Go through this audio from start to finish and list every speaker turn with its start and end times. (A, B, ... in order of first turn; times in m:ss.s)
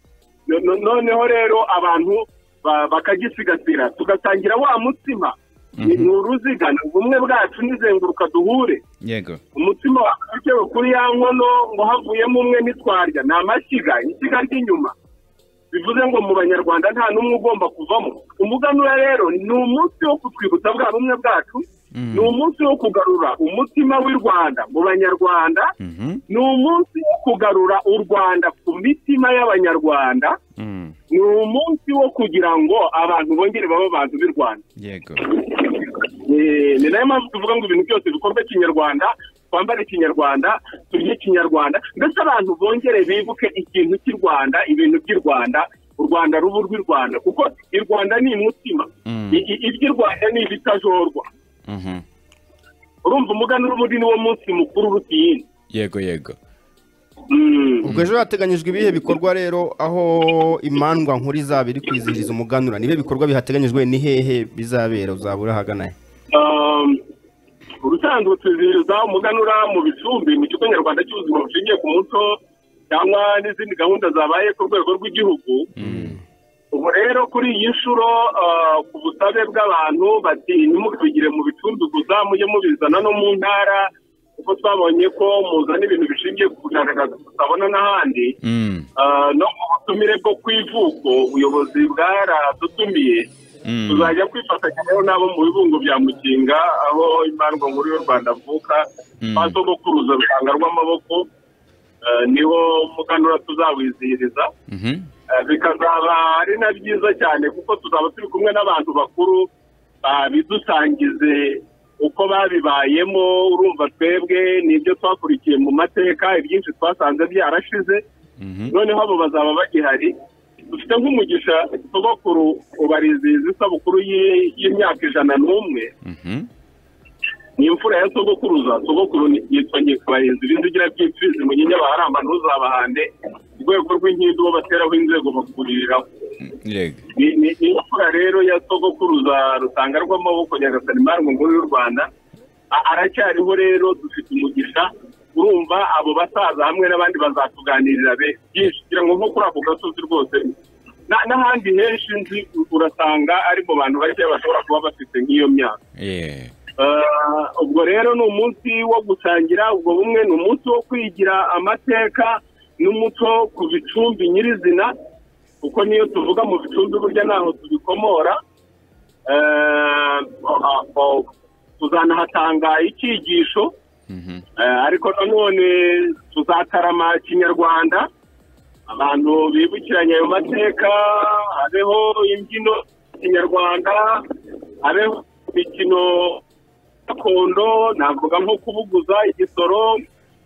0:00.5-0:08.8 A
0:05.8-0:06.1 B
0:09.0-0:09.4 B
0:09.5-0:14.9 A
0:15.7-0:25.7 A
0:21.9-0:22.4 B
0:25.8-0:26.2 B
0:26.3-0:30.4 A
0:30.6-0:30.9 B
0:31.1-0:34.6 A
0:34.8-0:35.4 B
0:35.2-0:51.3 A
0:49.0-0:49.4 B
0:51.7-0:52.0 B
0:53.0-0:55.4 A
0:55.7-0:56.4 B
0:57.3-0:57.9 A
0:57.8-1:05.9 C
1:06.3-1:07.0 A
1:07.8-1:15.7 A
1:15.8-1:16.2 B
1:15.8-1:16.2 C
1:16.7-1:28.4 A
1:28.4-1:28.9 B
1:29.0-1:33.3 A
1:33.6-1:34.1 B
1:33.9-1:41.3 A
1:39.2-1:39.6 B
1:42.0-1:44.5 A
1:44.7-1:45.0 B
1:45.3-1:49.5 A
1:50.0-1:58.0 A
1:58.4-1:58.7 B
1:58.7-2:00.2 A
2:00.7-2:05.9 A
2:06.0-2:06.5 B
2:07.6-2:16.1 A
2:16.4-2:17.0 B
2:17.1-2:22.1 A
2:22.7-2:30.5 A
2:31.1-2:35.8 A
2:36.0-2:36.5 B
2:36.8-2:44.9 A
2:45.6-2:48.4 A
2:49.2-2:53.7 A
2:54.1-2:54.4 B
2:54.6-2:58.1 A
2:58.9-3:04.3 A
3:04.8-3:06.4 A
3:07.1-3:10.0 A